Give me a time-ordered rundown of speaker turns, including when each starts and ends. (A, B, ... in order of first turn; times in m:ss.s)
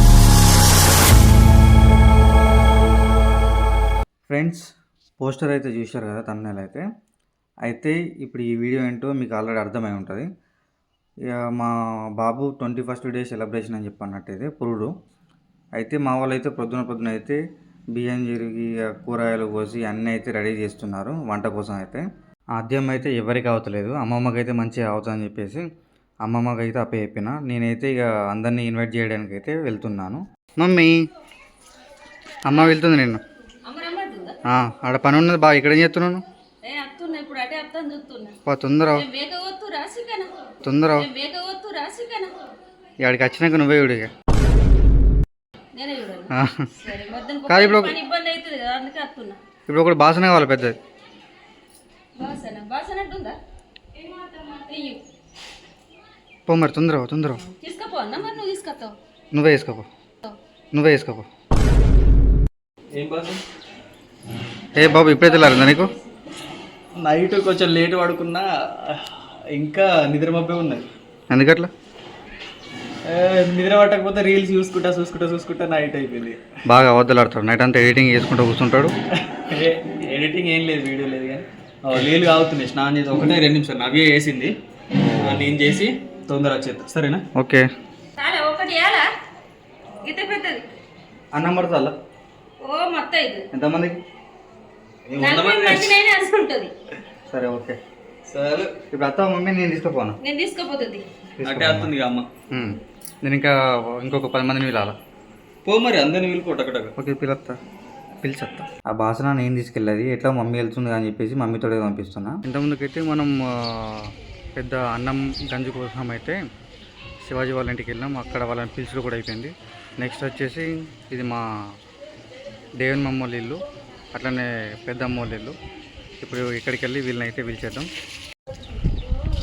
0:04.3-0:04.6 A
0:05.2-0:06.8 A
0:07.6-0:10.3 A
0:11.3-0:14.9 A
0:15.8-0:17.4 A
0:17.9-0:22.0 A
0:22.6-0:25.6 A
0:26.2-0:30.9 A
0:32.5-0:33.2 A
0:33.6-0:34.4 B
0:34.5-0:36.2 A
0:36.6-0:38.4 B
0:38.5-0:39.0 A
0:39.0-0:40.4 B
0:40.6-0:41.1 A
0:40.9-0:42.4 B
0:43.0-0:44.1 A
0:45.8-0:46.3 B
0:46.3-0:46.7 A
0:46.8-0:49.4 B
0:47.5-0:48.0 A
0:49.7-0:50.8 A
0:52.2-0:53.4 B
0:54.5-0:55.0 B
0:56.5-0:57.4 A
0:57.5-0:59.0 B
0:59.3-0:59.9 A
1:00.7-1:01.3 A
1:02.9-1:03.4 C
1:04.8-1:05.9 A
1:05.4-1:05.8 B
1:07.0-1:09.0 C
1:09.5-1:10.8 C
1:11.3-1:11.7 A
1:13.1-1:16.4 C
1:16.7-1:18.9 A
1:19.5-1:24.5 C
1:25.2-1:27.2 C
1:27.4-1:27.7 A
1:28.2-1:29.1 B
1:30.0-1:30.6 B
1:31.3-1:31.9 A
1:32.6-1:33.5 B
1:33.5-1:34.0 A
1:35.1-1:36.0 C
1:35.2-1:36.7 B
1:37.3-1:37.8 A
1:38.3-1:38.7 C
1:38.9-1:40.2 A
1:40.2-1:41.0 B
1:41.4-1:42.0 A
1:41.4-1:42.3 C
1:42.5-1:45.0 A
1:45.6-1:46.9 C
1:47.0-1:47.6 A
1:48.2-1:56.4 A
1:57.2-2:01.4 A
2:02.8-2:03.6 A
2:04.1-2:05.6 A
2:06.2-2:07.9 A